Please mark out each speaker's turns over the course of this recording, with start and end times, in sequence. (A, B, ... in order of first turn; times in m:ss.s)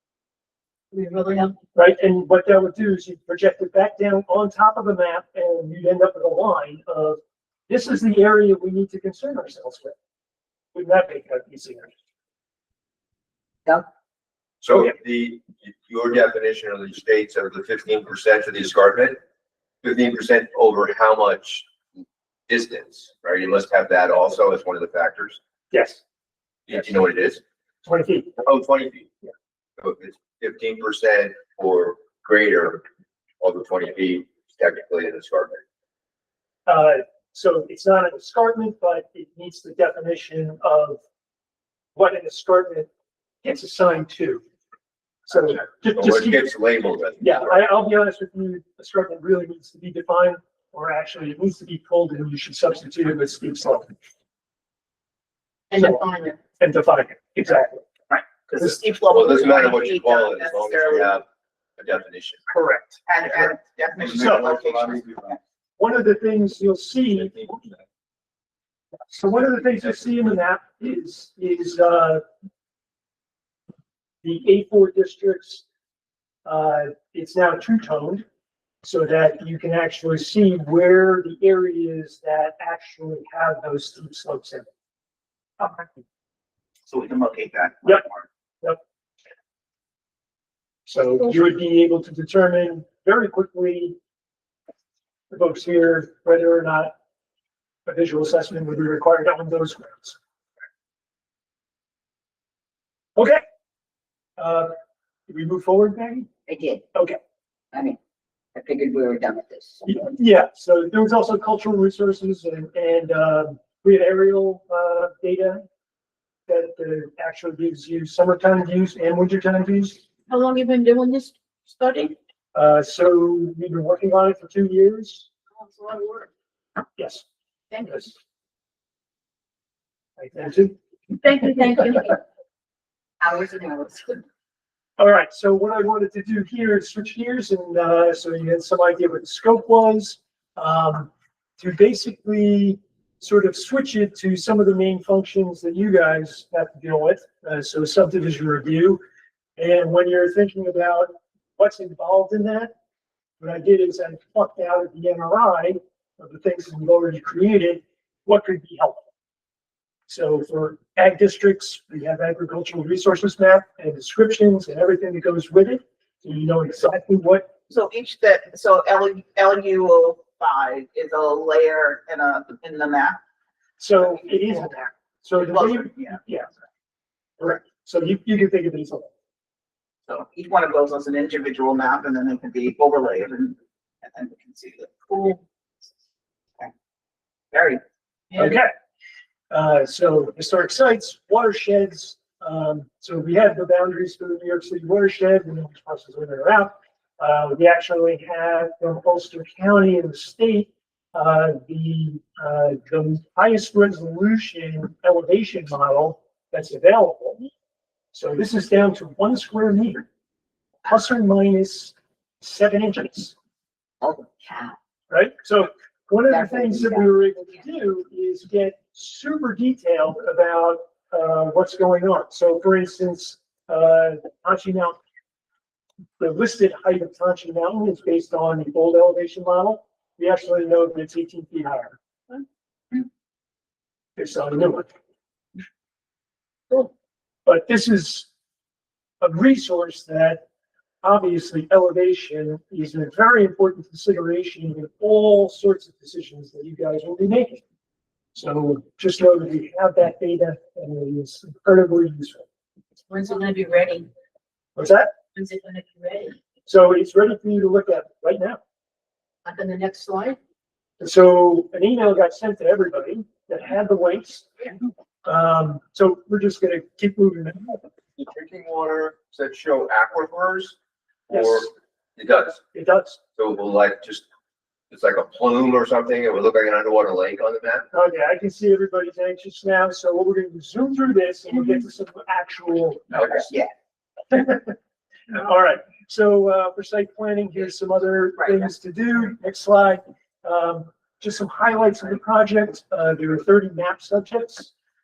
0:00.9-0:01.6 A
0:01.8-0:09.9 B
0:10.7-0:11.9 B
0:14.6-0:19.2 C
0:19.8-0:21.7 C
0:22.5-0:25.4 C
0:25.7-0:26.0 B
0:26.7-0:27.4 C
0:27.8-0:28.4 B
0:28.4-0:29.1 C
0:29.8-0:32.8 C
0:33.4-0:35.6 C
0:36.7-0:41.0 B
0:42.0-0:42.9 B
0:43.4-0:44.4 B
0:45.3-0:46.4 B
0:45.9-0:47.6 C
0:47.2-0:53.9 B
0:55.7-0:56.4 A
0:56.6-0:57.8 B
0:58.1-1:01.2 D
0:59.1-1:01.2 C
1:01.8-1:02.4 C
1:02.5-1:03.0 B
1:03.1-1:05.4 D
1:04.1-1:04.6 B
1:05.8-1:07.4 B
1:09.1-1:12.2 B
1:14.2-1:15.6 B
1:16.4-1:18.2 B
1:18.8-1:24.7 B
1:26.9-1:28.3 D
1:30.9-1:34.0 B
1:35.3-1:36.9 B
1:37.9-1:40.2 B
1:43.2-1:43.4 B
1:44.4-1:44.7 B
1:45.3-1:46.3 B
1:46.5-1:46.8 E
1:47.7-1:48.0 E
1:48.6-1:49.8 E
1:49.9-1:55.6 B
1:56.5-2:00.0 B
2:00.3-2:02.2 A
2:02.6-2:05.3 B
2:05.6-2:06.3 A
2:07.0-2:07.2 B
2:07.7-2:08.1 A
2:10.2-2:10.8 B
2:11.2-2:12.2 A
2:13.2-2:14.1 E
2:15.0-2:29.0 B
2:29.6-2:32.7 B
2:33.4-2:39.1 B
2:40.1-2:47.5 B
2:47.7-2:53.2 D
2:53.8-2:56.5 B
2:55.4-2:56.2 D
2:57.4-2:59.1 B
3:00.1-3:05.4 D
3:07.5-3:07.8 D
3:08.4-3:08.7 B
3:09.5-3:27.5 B
3:28.1-3:30.0 B
3:30.9-3:33.3 B
3:34.0-3:34.8 E
3:35.1-3:45.0 B
3:36.3-3:37.0 E
3:46.2-3:52.0 B
3:54.2-3:54.9 B
3:57.4-3:58.3 B
3:59.2-4:00.4 B
4:01.0-4:07.6 B
4:08.4-4:12.5 B
4:13.1-4:14.1 A
4:14.8-4:15.1 B
4:15.4-4:16.4 A
4:16.7-4:18.6 B
4:19.4-4:20.4 A
4:21.0-4:24.7 B
4:25.3-4:27.8 B
4:28.2-4:30.8 C
4:31.3-4:32.6 C
4:31.3-4:31.7 B
4:32.7-4:33.2 B
4:33.4-4:34.3 C
4:34.9-4:37.9 C
4:37.9-4:43.5 B
4:43.4-4:43.7 D
4:44.3-4:44.8 B
4:45.3-4:54.7 B